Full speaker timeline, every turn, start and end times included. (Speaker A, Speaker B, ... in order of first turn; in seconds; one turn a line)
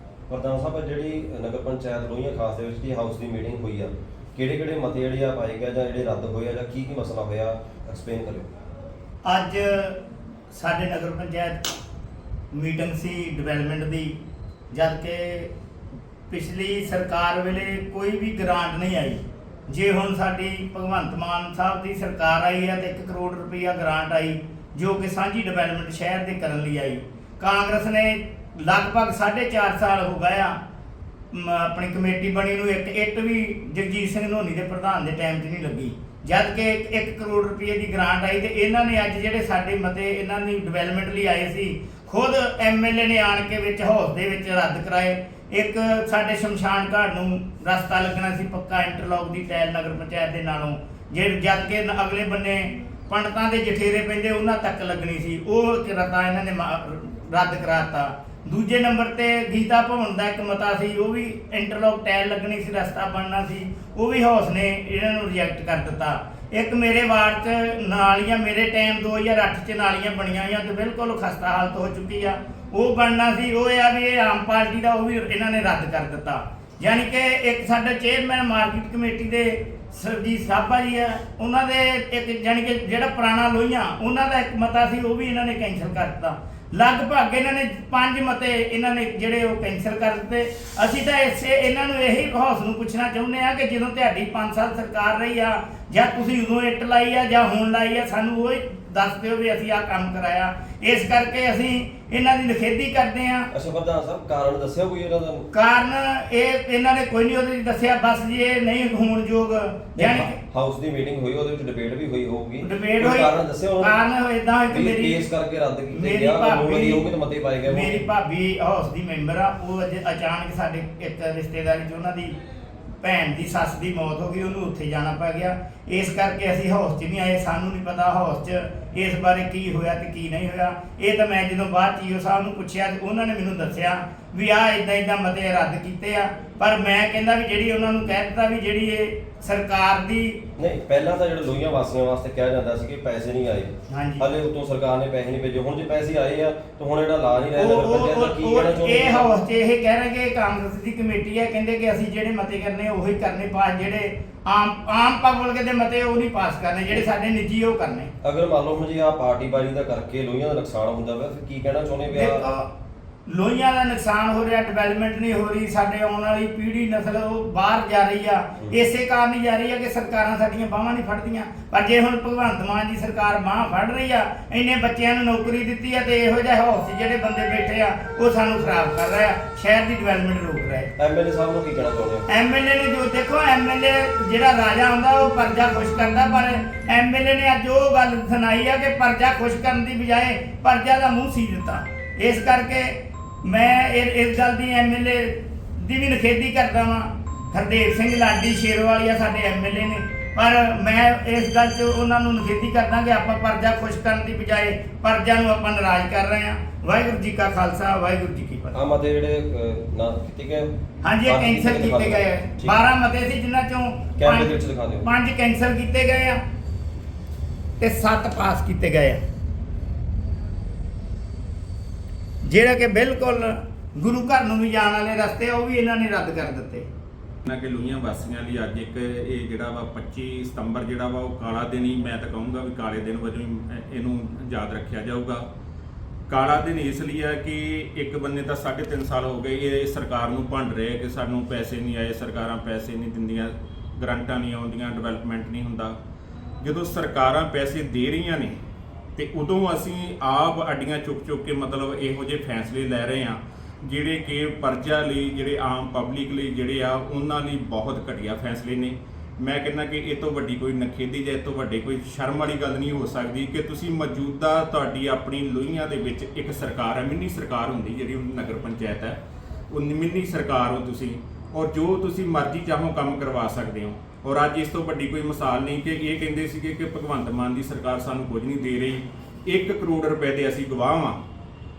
Speaker A: 0.3-8.5
Speaker B: 9.3-10.0
Speaker B: 10.5-11.7
Speaker B: 12.5-14.2
Speaker B: 14.7-15.5
Speaker B: 16.3-30.6
Speaker B: 31.3-103.5
Speaker A: 103.5-105.5
Speaker B: 105.5-110.4
Speaker A: 110.0-114.0
Speaker B: 112.6-115.2
Speaker A: 114.7-118.0
Speaker B: 115.9-117.0
Speaker B: 117.7-122.4
Speaker B: 123.0-140.4
Speaker A: 140.6-149.3
Speaker B: 143.9-144.3
Speaker B: 147.6-158.1
Speaker A: 158.2-162.4
Speaker B: 162.1-162.7
Speaker B: 163.3-180.9
Speaker A: 181.0-182.2
Speaker B: 182.3-208.8
Speaker A: 208.7-210.7
Speaker B: 211.0-214.5
Speaker A: 211.2-212.8
Speaker A: 214.2-215.1
Speaker B: 215.0-216.4
Speaker B: 217.8-219.2
Speaker B: 222.4-226.8
Speaker C: 227.5-235.4
Speaker C: 236.3-246.0
Speaker C: 246.6-248.6
Speaker C: 249.2-269.2
Speaker C: 269.7-281.2